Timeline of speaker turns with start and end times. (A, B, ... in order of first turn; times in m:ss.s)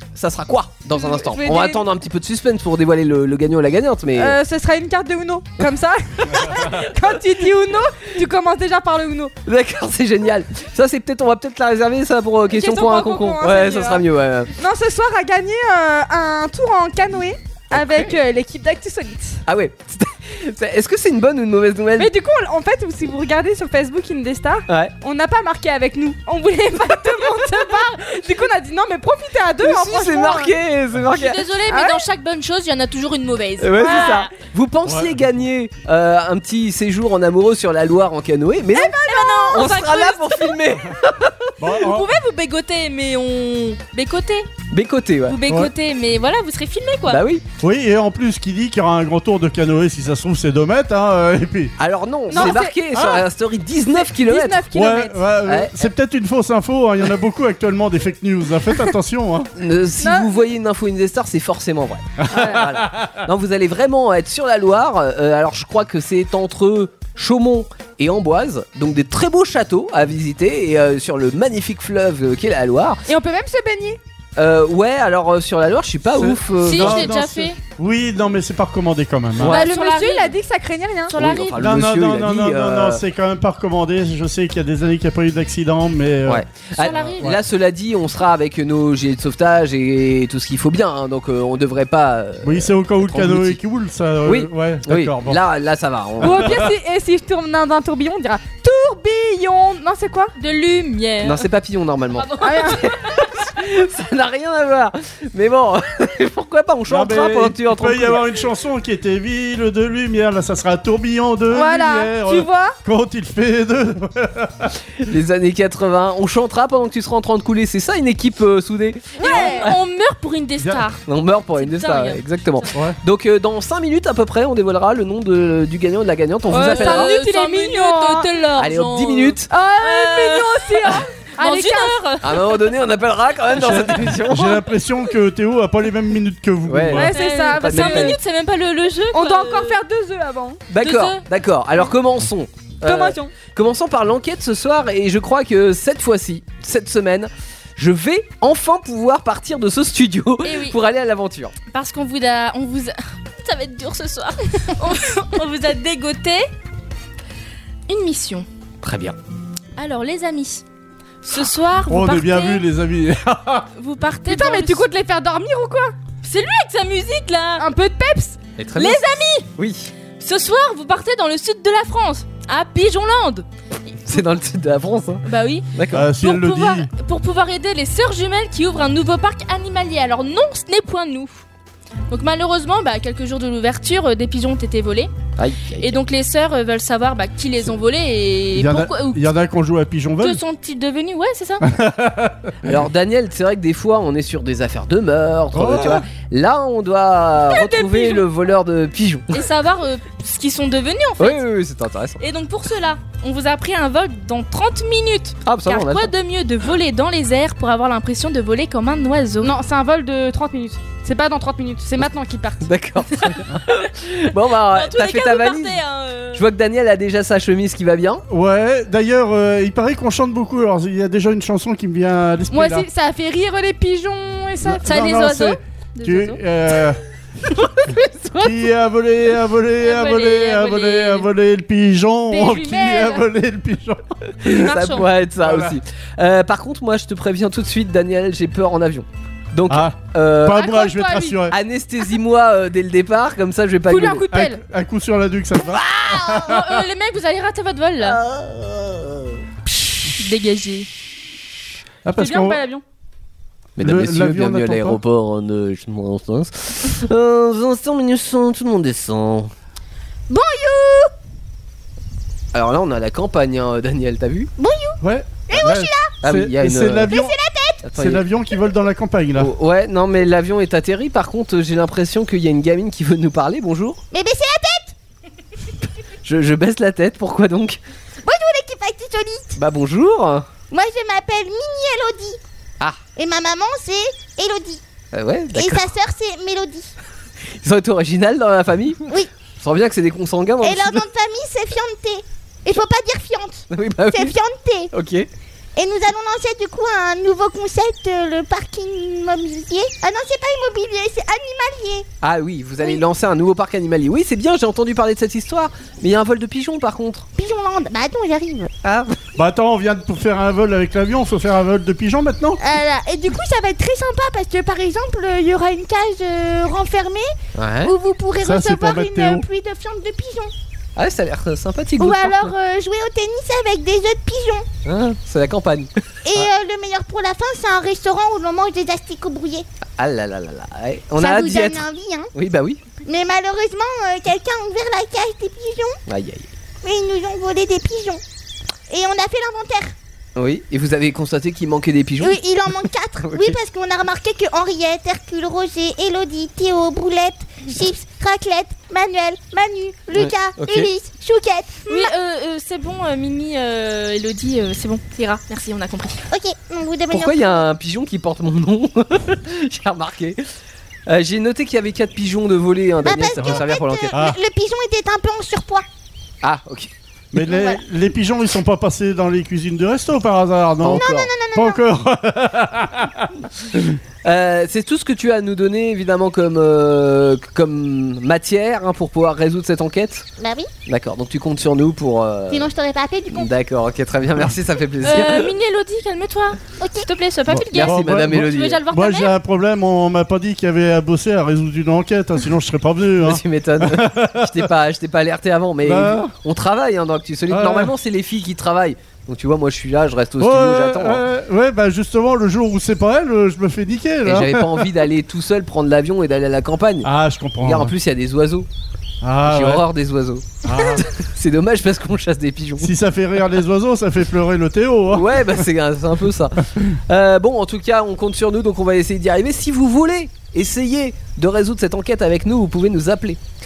0:00.2-0:04.4 A
0:00.9-0:01.8 B
0:04.1-0:09.3 B
0:06.3-0:06.8 A
0:09.4-0:14.5 A
0:12.5-0:14.0 B
0:14.6-0:19.4 B
0:17.7-0:18.1 A
0:19.4-0:22.1 A
0:22.0-0:30.5 B
0:24.7-0:24.9 A
0:29.6-0:31.4 A
0:31.1-0:34.3 C
0:31.7-0:32.0 B
0:33.6-0:41.5 A
0:33.8-0:34.2 B
0:34.8-0:35.3 D
0:38.7-0:39.7 B
0:39.0-0:40.6 C
0:41.6-0:42.1 D
0:41.8-0:44.5 C
0:44.7-0:45.4 A
0:45.3-0:47.2 C
0:45.5-0:45.7 D
0:47.1-0:47.4 A
0:47.6-0:51.7 D
0:51.8-0:54.7 A
0:52.3-0:52.8 B
0:52.3-0:53.2 D
0:54.0-0:55.2 B
0:54.7-0:59.5 D
0:55.4-0:55.7 A
0:59.6-1:13.0 A
1:00.0-1:00.3 B
1:02.3-1:03.2 D
1:02.4-1:02.6 B
1:13.1-1:14.0 B
1:14.4-1:17.1 A
1:16.2-1:19.6 D
1:16.6-1:17.6 C
1:19.4-1:19.6 A
1:19.5-1:20.3 C
1:19.5-1:21.2 B
1:21.1-1:23.0 A
1:21.1-1:21.6 C
1:21.6-1:26.4 D
1:26.2-1:33.6 A
1:26.8-1:27.3 C
1:32.4-1:35.4 D
1:34.2-1:36.6 A
1:36.2-1:40.3 B
1:36.2-1:36.7 D
1:40.4-1:41.4 C
1:41.2-1:48.4 A
1:42.2-1:43.4 C
1:42.4-1:42.8 B
1:46.9-1:54.8 D
1:51.5-1:52.7 B
1:55.0-1:59.8 A
1:59.2-1:59.7 B
1:59.2-2:02.7 C
2:00.6-2:00.8 D
2:01.1-2:07.1 A
2:06.5-2:08.3 B
2:06.5-2:12.6 C
2:08.6-2:09.5 A
2:09.5-2:12.0 B
2:12.2-2:14.6 A
2:13.5-2:17.1 D
2:16.7-2:18.2 A
2:16.9-2:18.2 B
2:17.1-2:19.8 C
2:19.1-2:20.6 B
2:20.7-2:31.5 A
2:20.8-2:21.2 C
2:22.8-2:23.3 B
2:30.4-2:30.8 C
2:31.7-2:36.5 C
2:37.9-2:38.5 C
2:38.8-2:39.2 A
2:39.8-2:40.6 C
2:41.2-2:42.6 C
2:41.9-2:43.7 D
2:43.8-2:44.9 C
2:44.2-2:45.9 B
2:46.2-2:47.6 C
2:47.6-2:48.4 B
2:48.6-2:49.0 A
2:48.8-2:49.5 C
2:49.6-2:49.9 A
2:50.2-2:53.4 C
2:54.0-2:56.1 A
2:55.2-2:55.7 C
2:55.9-2:56.9 D
2:56.2-3:01.4 C
3:02.1-3:05.1 C
3:05.4-3:05.9 A
3:05.8-3:09.2 C
3:08.5-3:10.4 D
3:10.2-3:11.6 C
3:11.6-3:12.7 D
3:12.6-3:19.3 A
3:15.5-3:16.0 D
3:17.5-3:18.2 C
3:19.3-3:21.4 C
3:21.2-3:22.2 A
3:22.2-3:29.6 C
3:25.4-3:26.1 A
3:29.4-3:32.7 B
3:32.6-3:35.8 A
3:33.2-3:33.9 C
3:34.5-3:36.4 C
3:36.3-3:38.2 A
3:38.3-3:42.8 D
3:42.5-3:45.2 B
3:44.6-3:47.0 D
3:44.8-3:46.4 C
3:48.4-3:54.1 D
3:49.8-3:51.3 C
3:52.3-3:53.3 B
3:54.4-4:00.7 A
3:54.6-3:55.1 C
3:55.4-3:55.8 D
3:59.7-4:01.6 D
4:00.5-4:01.4 B
4:01.5-4:04.3 A
4:03.9-4:04.6 B
4:04.3-4:06.8 D
4:06.1-4:08.2 C
4:08.0-4:09.3 A
4:09.7-4:10.9 C
4:12.0-4:12.6 D
4:12.2-4:12.8 B
4:13.8-4:19.5 A
4:13.8-4:15.0 D
4:20.3-4:21.1 E
4:22.5-4:24.5 A
4:24.6-4:26.1 E
4:25.0-4:27.4 D
4:26.2-4:27.1 A
4:27.1-4:27.8 E
4:27.8-4:28.2 A
4:27.9-4:29.5 D
4:29.4-4:34.0 A
4:34.1-4:34.9 E
4:36.2-4:37.8 A
4:38.2-4:39.5 E
4:39.6-4:40.4 A
4:40.7-4:42.4 E
4:43.2-4:44.8 E
4:45.1-4:45.9 A
4:45.5-4:46.9 E
4:47.6-4:49.0 A
4:49.6-4:51.0 A
4:50.6-4:54.9 E
4:53.7-4:54.3 A
4:54.9-4:55.3 A
4:55.8-5:02.1 E
5:02.2-5:07.3 A
5:07.4-5:08.7 E
5:08.8-5:09.2 A
5:09.4-5:12.6 D
5:12.6-5:20.5 E
5:17.5-5:17.9 A
5:18.4-5:19.4 D
5:21.0-5:22.5 A
5:22.0-5:24.6 E
5:24.8-5:26.5 A
5:26.2-5:29.6 E
5:30.0-5:32.8 A
5:31.2-5:32.3 E
5:33.0-5:36.0 E
5:36.1-5:36.5 A
5:36.8-5:38.2 E
5:38.9-5:39.9 E
5:40.4-5:42.4 A
5:42.2-5:52.1 E
5:43.2-5:43.6 A
5:50.1-5:50.9 A
5:51.9-5:56.2 C
5:56.3-5:57.6 E
5:57.1-6:00.4 A
6:01.1-6:04.1 A
6:03.0-6:05.8 E
6:04.1-6:04.4 D
6:06.4-6:06.9 A
6:07.3-6:13.8 D
6:07.4-6:07.8 E
6:10.8-6:11.3 A
6:10.8-6:11.8 E
6:14.2-6:20.2 A
6:20.4-6:20.7 E
6:20.9-6:22.7 A
6:22.5-6:23.5 E
6:23.3-6:25.5 A
6:25.0-6:29.3 C
6:26.8-6:27.0 E
6:27.5-6:34.7 D
6:27.7-6:28.8 A
6:33.2-6:41.2 A
6:35.8-6:36.3 D
6:37.5-6:37.9 D
6:40.4-6:45.0 D
6:44.2-6:47.1 A
6:47.0-6:47.9 D
6:47.6-6:48.7 A
6:49.2-6:49.8 D
6:49.4-6:52.9 A
6:50.6-6:51.0 D
6:52.8-6:55.6 D
6:55.1-7:03.4 A